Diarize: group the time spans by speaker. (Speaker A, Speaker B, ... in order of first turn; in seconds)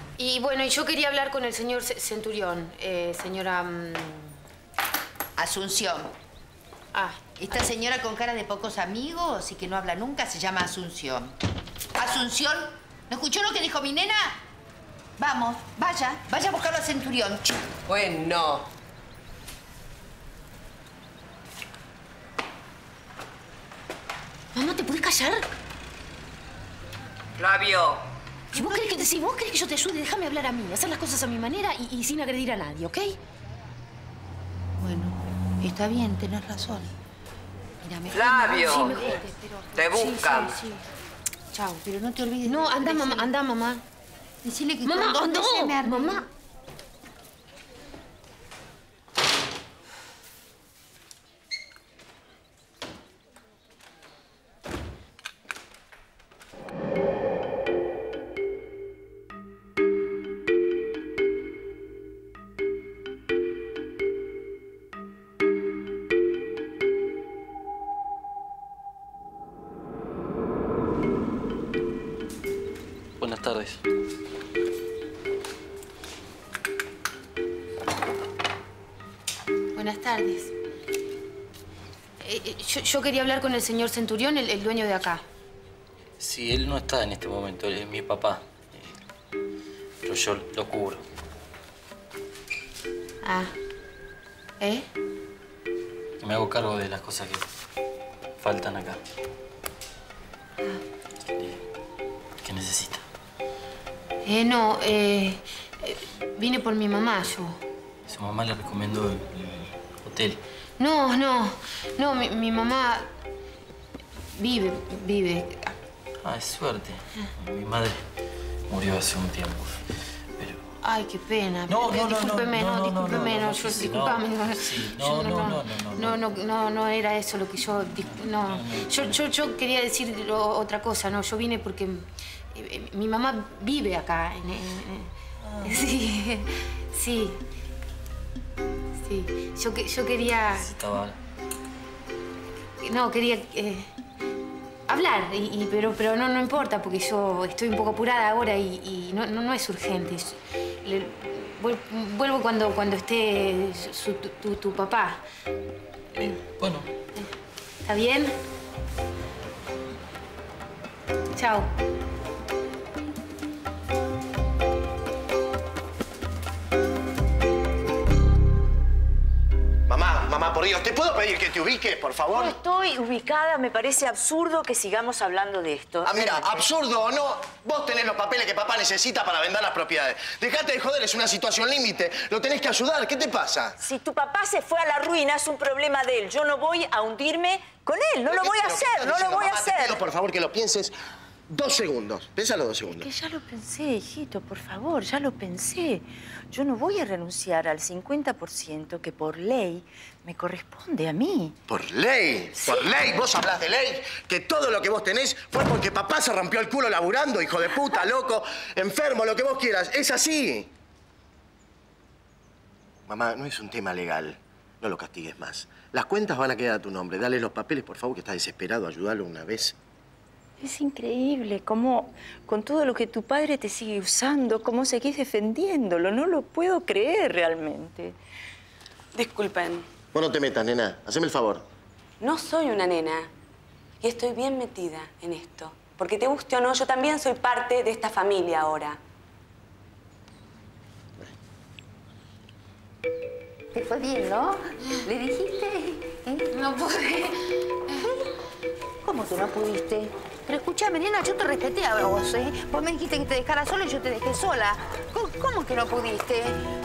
Speaker A: 0.2-4.4, 6.9-7.2, 24.5-25.4, 28.5-33.2, 38.2-40.6, 41.5-41.8, 42.5-43.8, 44.9-46.2, 79.8-80.5, 82.2-85.2, 93.2-93.5, 94.6-94.9, 104.2-107.6, 110.8-113.1, 114.3-115.8, 120.8-137.4, 139.0-140.7, 142.8-143.9, 144.9-155.2, 157.8-158.3, 161.3-161.7, 246.5-248.1
Speaker B: 5.4-6.1, 7.4-11.4, 12.0-14.4, 15.2-17.6, 34.8-36.9, 37.8-40.2, 41.8-43.3, 44.4-46.2, 243.7-246.5, 249.0-256.6
Speaker C: 17.9-18.6, 27.4-28.0, 38.1-38.9, 39.8-40.6
Speaker D: 73.2-73.8, 86.2-89.0, 90.0-91.0, 96.2-97.5, 98.4-99.0, 101.3-101.6, 102.4-103.0, 108.1-110.4, 116.2-118.0, 118.7-119.8, 121.7-126.2, 128.5-129.2, 135.4-135.8, 140.6-141.2, 156.2-156.9
Speaker E: 169.9-172.6, 176.1-183.7, 188.3-190.9, 191.5-193.1, 201.7-210.7, 213.1-219.8, 230.1-231.7
Speaker F: 172.3-176.6, 183.8-190.0, 192.9-201.6, 202.6-202.8, 220.6-228.2
Speaker G: 229.1-229.9, 232.2-233.3, 234.0-239.0